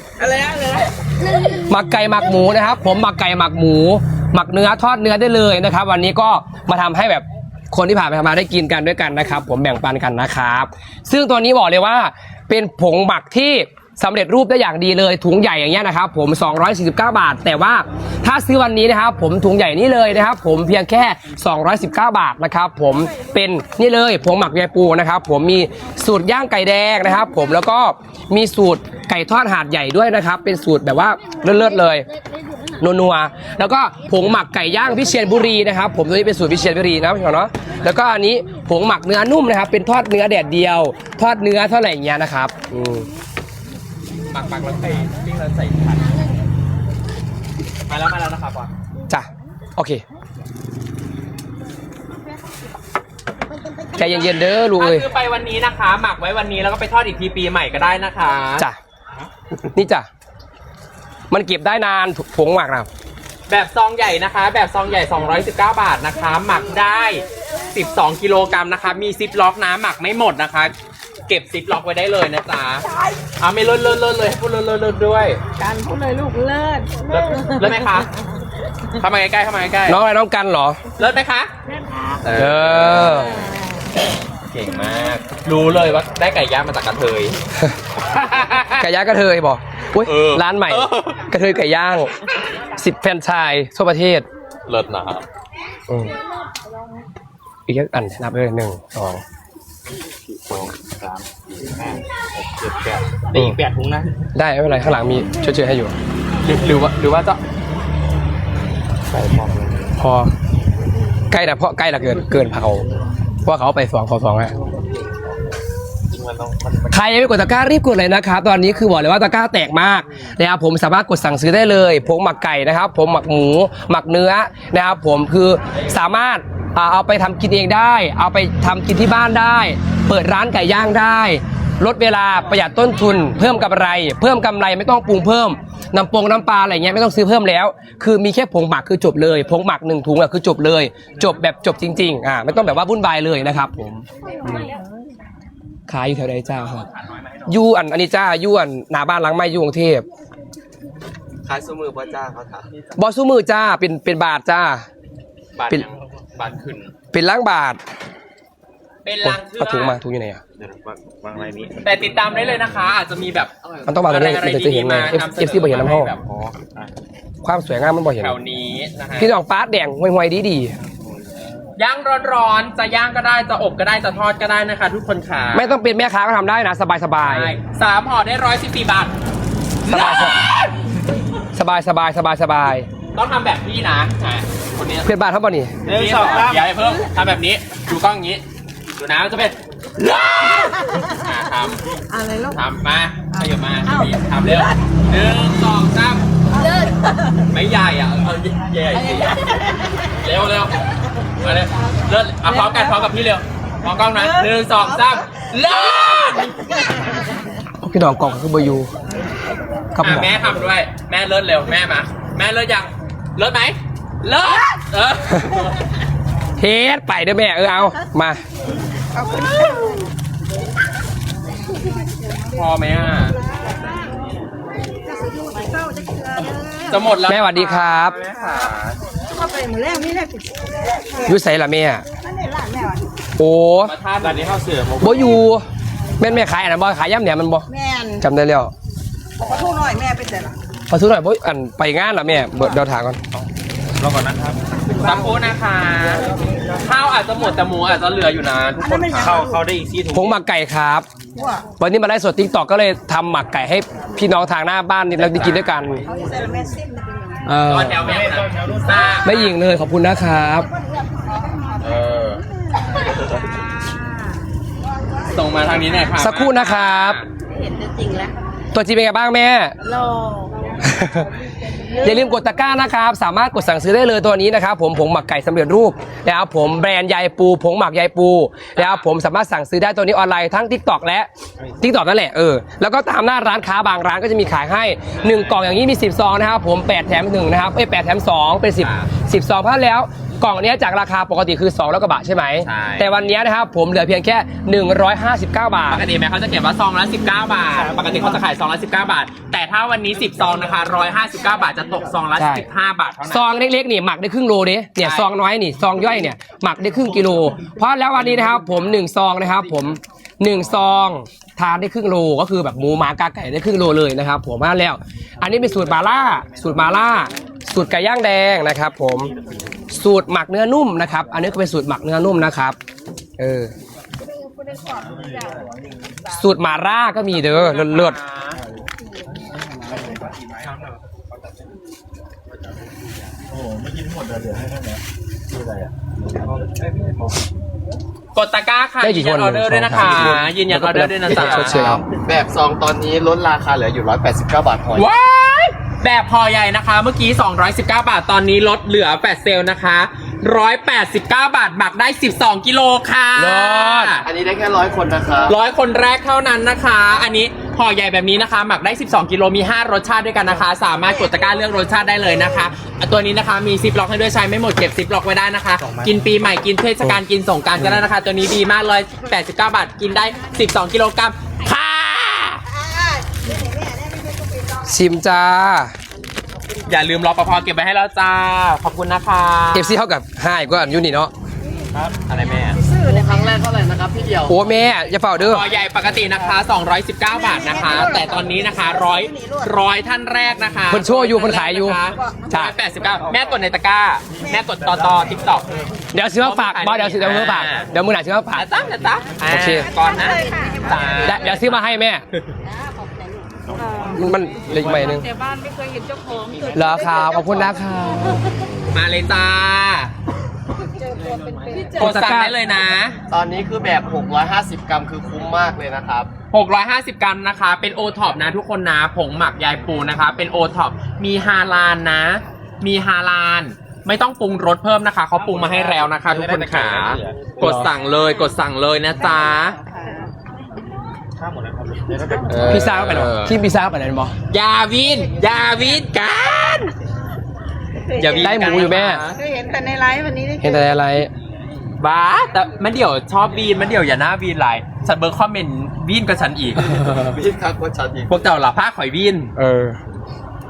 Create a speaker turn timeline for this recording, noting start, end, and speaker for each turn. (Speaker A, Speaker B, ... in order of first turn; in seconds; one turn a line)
Speaker A: 0.2-1.7
Speaker B: 1.6-32.0
Speaker B: 32.8-43.1
Speaker C: 44.3-46.1
Speaker C: 47.9-48.7
Speaker B: 49.1-50.0
Speaker B: 53.9-55.1
Speaker C: 53.9-58.6
Speaker B: 59.7-60.1
Speaker B: 61.3-62.9
Speaker C: 63.5-70.7
Speaker C: 71.3-72.8
Speaker C: 73.4-75.4
Speaker A: 75.6-77.8
Speaker C: 77.1-78.1
Speaker C: 79.0-80.0
Speaker B: 79.9-80.8
Speaker C: 81.0-81.5
Speaker A: 81.7-82.2
Speaker C: 82.2-83.5
Speaker B: 82.3-83.3
Speaker A: 83.3-83.6
Speaker C: 84.5-87.4
Speaker C: 88.1-88.8
Speaker B: 88.8-92.1
Speaker C: 90.0-91.2
Speaker B: 92.8-94.2
Speaker C: 94.7-95.2
Speaker B: 95.9-96.1
Speaker B: 97.7-99.2
Speaker D: 100.3-104.1
Speaker B: 104.3-105.9
Speaker C: 106.4-107.4
Speaker C: 109.1-109.7
Speaker B: 110.0-110.3
Speaker B: 111.3-112.8
Speaker B: 113.4-114.5
Speaker D: 116.1-116.9
Speaker B: 116.9-144.7
Speaker A: 144.4-144.8
Speaker B: 145.9-146.8
Speaker C: 146.7-147.5
Speaker B: 147.5-150.0
Speaker E: 151.4-152.7
Speaker B: 153.0-154.8
Speaker C: 155.6-156.9
Speaker B: 157.1-157.8
Speaker C: 159.0-160.0
Speaker B: 159.2-160.4
Speaker D: 160.6-161.8
Speaker C: 161.8-166.2
Speaker B: 163.9-166.1
Speaker D: 166.2-166.9
Speaker B: 167.4-168.3
Speaker C: 168.2-169.3
Speaker B: 169.2-170.8
Speaker C: 171.8-175.8
Speaker B: 175.5-177.5
Speaker C: 177.2-179.1
Speaker C: 179.8-180.7
Speaker B: 179.9-180.4
Speaker B: 181.5-182.9
Speaker C: 183.1-185.1
Speaker B: 185.1-185.7
Speaker D: 185.8-186.7
Speaker C: 185.8-188.4
Speaker C: 189.0-191.8
Speaker A: 192.1-192.6
Speaker C: 192.5-196.2
Speaker A: 196.5-197.2
Speaker C: 197.5-199.4
Speaker A: 199.0-199.8
Speaker C: 200.2-200.8
Speaker C: 201.4-206.5
Speaker A: 202.4-203.0
Speaker A: 204.1-204.5
Speaker B: 207.8-208.9
Speaker B: 209.9-210.3
Speaker C: 210.0-215.8
Speaker B: 216.6-218.4
Speaker A: 219.1-220.1
Speaker C: 222.5-223.3
Speaker A: 223.4-224.2
Speaker A: 225.0-227.2
Speaker C: 226.4-229.0
Speaker B: 227.2-228.2
Speaker A: 228.3-228.7
Speaker A: 229.3-231.4
Speaker B: 231.2-232.0
Speaker A: 232.2-233.1
Speaker B: 233.4-233.9
Speaker C: 233.8-234.6
Speaker D: 234.2-235.4
Speaker B: 235.0-235.6
Speaker B: 236.2-237.7
Speaker A: 237.7-238.2
Speaker B: 238.2-238.7
Speaker A: 239.4-240.6
Speaker B: 240.9-243.2
Speaker D: 243.3-244.7
Speaker A: 244.9-245.4
Speaker C: 245.0-246.3
Speaker C: 246.8-249.4
Speaker A: 248.8-249.6
Speaker D: 249.2-250.3
Speaker B: 250.1-251.1
Speaker A: 251.3-251.7
Speaker B: 251.8-256.0
Speaker C: 255.2-255.8
Speaker A: 256.0-257.5
Speaker B: 257.4-258.2
Speaker C: 257.7-259.6
Speaker D: 258.0-259.1
Speaker B: 259.2-260.7
Speaker A: 261.3-261.8
Speaker C: 261.8-262.4
Speaker A: 262.9-264.2
Speaker C: 265.3-267.3
Speaker B: 266.2-267.2
Speaker A: 267.4-268.3
Speaker B: 268.7-269.7
Speaker A: 269.8-270.9
Speaker B: 270.8-271.3
Speaker A: 271.6-272.2
Speaker B: 272.0-281.3
Speaker C: 278.8-279.1
Speaker B: 281.8-296.0
Speaker C: 285.2-285.5
Speaker C: 288.8-289.1
Speaker C: 292.6-293.1
Speaker C: 295.9-303.5
Speaker D: 297.8-298.2
Speaker B: 302.4-302.6
Speaker B: 303.2-319.3
Speaker C: 305.0-305.3
Speaker B: 319.9-322.8
Speaker B: 323.4-323.7
Speaker A: 324.4-325.6
Speaker D: 325.0-325.6
Speaker B: 326.4-328.2
Speaker C: 327.5-328.6
Speaker D: 329.8-330.9
Speaker D: 333.5-337.3
Speaker C: 338.3-341.8
Speaker B: 339.0-342.0
Speaker E: 341.3-345.1
Speaker C: 344.9-354.2
Speaker B: 353.4-354.1
Speaker E: 354.2-355.6
Speaker C: 355.5-372.6
Speaker D: 365.8-366.1
Speaker A: 373.6-374.4
Speaker B: 374.9-375.9
Speaker C: 376.9-380.0
Speaker B: 379.7-381.3
Speaker D: 381.9-382.2
Speaker C: 382.3-382.8
Speaker E: 382.8-384.6
Speaker B: 384.5-385.6
Speaker C: 385.4-395.7
Speaker A: 387.3-389.7
Speaker B: 390.9-392.0
Speaker A: 392.2-392.5
Speaker B: 396.1-398.6
Speaker C: 396.4-397.9
Speaker C: 398.5-401.8
Speaker B: 399.5-399.9
Speaker A: 399.8-401.5
Speaker B: 401.2-402.2
Speaker A: 402.6-408.4
Speaker D: 403.7-405.1
Speaker B: 404.1-405.3
Speaker B: 406.7-408.5
Speaker C: 408.9-410.1
Speaker A: 410.8-412.2
Speaker D: 411.3-411.9
Speaker B: 411.9-412.6
Speaker C: 412.0-413.1
Speaker E: 413.3-416.3
Speaker C: 416.5-429.8
Speaker D: 425.6-427.9
Speaker B: 427.6-427.9
Speaker A: 429.3-430.3
Speaker D: 431.4-433.0
Speaker C: 432.5-433.6
Speaker B: 432.7-434.3
Speaker C: 434.5-436.9
Speaker A: 438.1-440.9
Speaker C: 438.2-439.4
Speaker B: 438.4-439.2
Speaker B: 440.6-441.3
Speaker C: 442.0-447.2
Speaker E: 447.1-448.4
Speaker C: 448.3-449.5
Speaker B: 449.6-450.0